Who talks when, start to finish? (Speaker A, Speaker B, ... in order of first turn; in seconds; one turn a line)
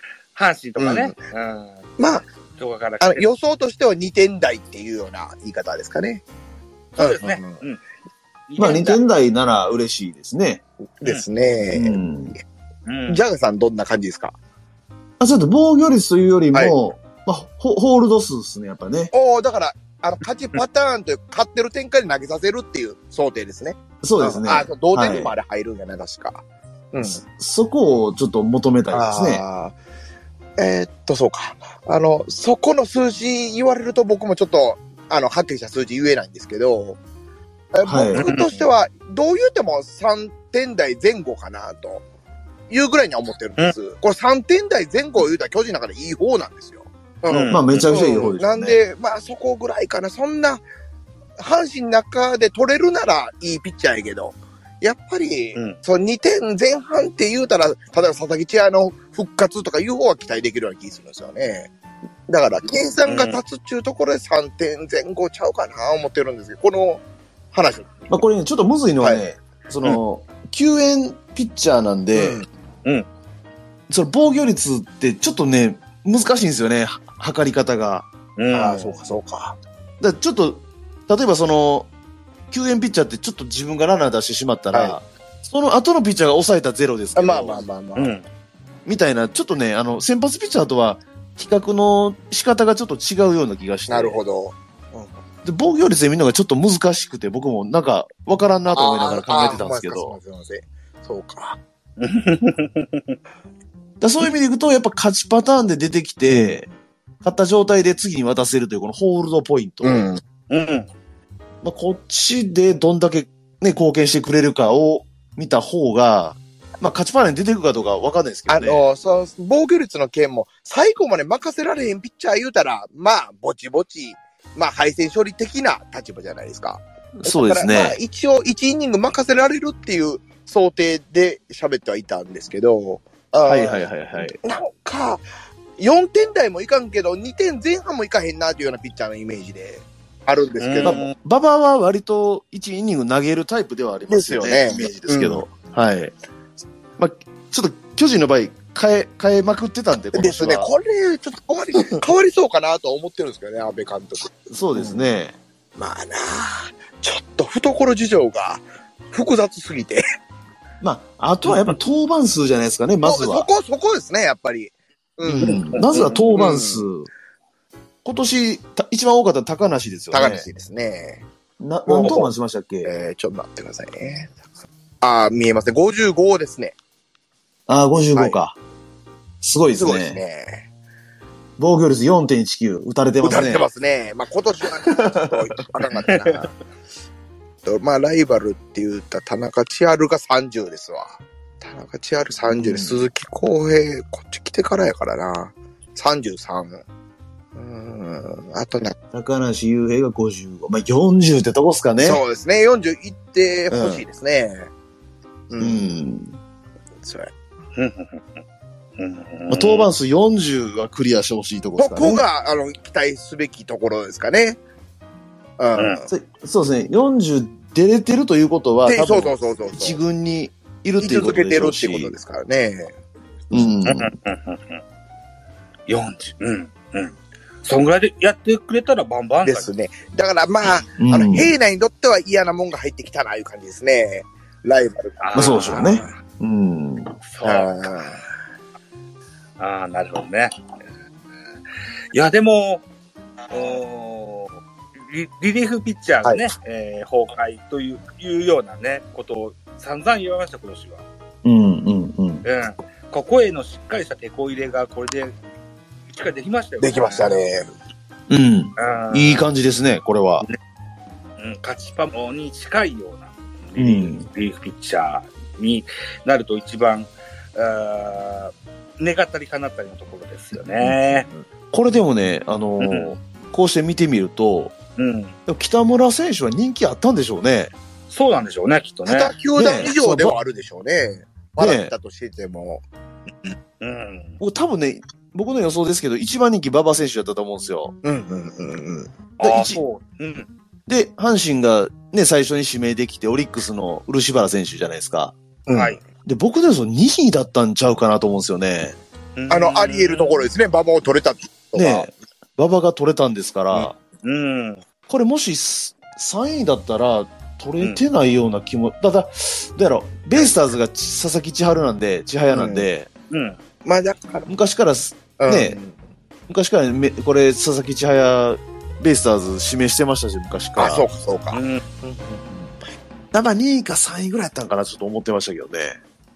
Speaker A: 0.3-1.9
Speaker B: 0.8-1.2
Speaker B: 2.0-2.2
Speaker A: 2.6-3.3
Speaker B: 3.0-6.2
Speaker A: 7.0-7.8
Speaker B: 7.0-7.6
Speaker A: 8.5-9.0
Speaker C: 8.6-10.6
Speaker B: 11.0-12.0
Speaker C: 11.7-12.3
Speaker A: 12.8-13.2
Speaker B: 13.1-14.3
Speaker C: 15.2-19.1
Speaker B: 19.1-27.2
Speaker C: 24.0-25.3
Speaker C: 27.0-29.4
Speaker B: 28.9-29.7
Speaker B: 30.6-37.0
Speaker B: 37.7-42.0
Speaker C: 37.8-38.3
Speaker A: 38.1-38.7
Speaker B: 42.7-50.6
Speaker A: 47.3-47.9
Speaker C: 47.5-48.8
Speaker B: 51.4-61.7
Speaker B: 62.3-68.1
Speaker A: 63.1-63.4
Speaker C: 68.1-72.4
Speaker B: 72.1-72.5
Speaker C: 73.9-78.1
Speaker A: 78.4-79.0
Speaker B: 78.5-79.6
Speaker C: 80.0-81.9
Speaker C: 82.5-87.6
Speaker B: 84.7-85.0
Speaker B: 87.2-88.1
Speaker A: 88.0-88.3
Speaker C: 88.8-94.2
Speaker B: 93.9-95.1
Speaker C: 95.4-100.1
Speaker B: 98.7-101.6
Speaker A: 102.0-103.2
Speaker C: 104.0-106.7
Speaker B: 106.3-106.5
Speaker C: 107.2-110.0
Speaker B: 109.8-110.2
Speaker A: 110.5-110.9
Speaker C: 111.6-118.8
Speaker B: 118.5-133.8
Speaker C: 127.2-128.0
Speaker C: 133.4-134.4
Speaker B: 134.4-135.2
Speaker B: 135.8-141.0
Speaker A: 140.6-141.1
Speaker C: 140.8-146.1
Speaker B: 144.1-145.4
Speaker C: 147.0-150.7
Speaker B: 150.1-155.0
Speaker C: 154.5-155.3
Speaker B: 155.8-160.0
Speaker C: 160.8-163.5
Speaker B: 163.0-165.6
Speaker C: 165.2-167.1
Speaker A: 165.4-166.3
Speaker B: 166.3-166.9
Speaker C: 168.0-170.4
Speaker B: 170.1-171.2
Speaker C: 171.6-172.9
Speaker B: 171.9-172.3
Speaker B: 172.8-174.4
Speaker B: 175.0-176.7
Speaker C: 177.7-178.6
Speaker C: 179.4-180.2
Speaker B: 179.8-180.7
Speaker C: 181.6-183.6
Speaker B: 183.2-186.5
Speaker C: 184.8-185.4
Speaker A: 186.1-186.4
Speaker B: 187.6-196.8
Speaker C: 192.5-193.1
Speaker B: 197.5-198.9
Speaker C: 199.1-202.2
Speaker B: 202.0-204.7
Speaker C: 203.7-204.0
Speaker B: 205.5-206.0
Speaker C: 205.6-206.4
Speaker B: 207.0-207.3
Speaker A: 207.7-208.4
Speaker A: 209.0-209.9
Speaker C: 209.5-212.2
Speaker B: 211.8-214.6
Speaker B: 215.6-216.1
Speaker C: 216.1-222.2
Speaker B: 218.8-220.0
Speaker B: 221.0-223.0
Speaker C: 223.5-224.1
Speaker A: 223.8-224.8
Speaker A: 225.9-229.7
Speaker B: 229.4-236.1
Speaker C: 231.0-231.5
Speaker A: 235.2-236.1
Speaker C: 235.3-237.1
Speaker A: 237.2-237.9
Speaker B: 237.4-238.2
Speaker A: 239.6-240.6
Speaker A: 242.1-242.8
Speaker A: 243.5-251.0
Speaker C: 251.4-252.4
Speaker A: 252.4-255.4
Speaker A: 256.1-257.4
Speaker B: 256.8-257.7
Speaker C: 258.3-260.4
Speaker A: 258.8-259.4
Speaker A: 261.4-271.3
Speaker C: 263.8-264.3
Speaker C: 271.7-274.7
Speaker A: 272.8-273.1
Speaker A: 275.0-275.4
Speaker C: 275.5-277.7
Speaker A: 278.1-279.9
Speaker B: 279.0-282.9
Speaker C: 279.5-280.4
Speaker C: 281.6-281.9
Speaker A: 283.4-284.4
Speaker C: 284.4-287.9
Speaker B: 288.0-289.1
Speaker C: 289.4-289.8
Speaker A: 289.4-290.5
Speaker C: 290.9-295.3
Speaker B: 295.7-296.0
Speaker A: 295.7-296.0
Speaker C: 296.2-299.0
Speaker A: 299.4-300.5
Speaker B: 299.5-302.1
Speaker C: 301.7-303.9
Speaker A: 304.2-304.8
Speaker C: 305.1-313.1
Speaker B: 312.5-312.9
Speaker A: 313.3-313.6
Speaker B: 313.8-314.5
Speaker C: 314.4-315.8
Speaker B: 315.4-315.9
Speaker C: 316.5-321.1
Speaker B: 320.8-322.8
Speaker A: 321.5-321.8
Speaker C: 323.3-326.0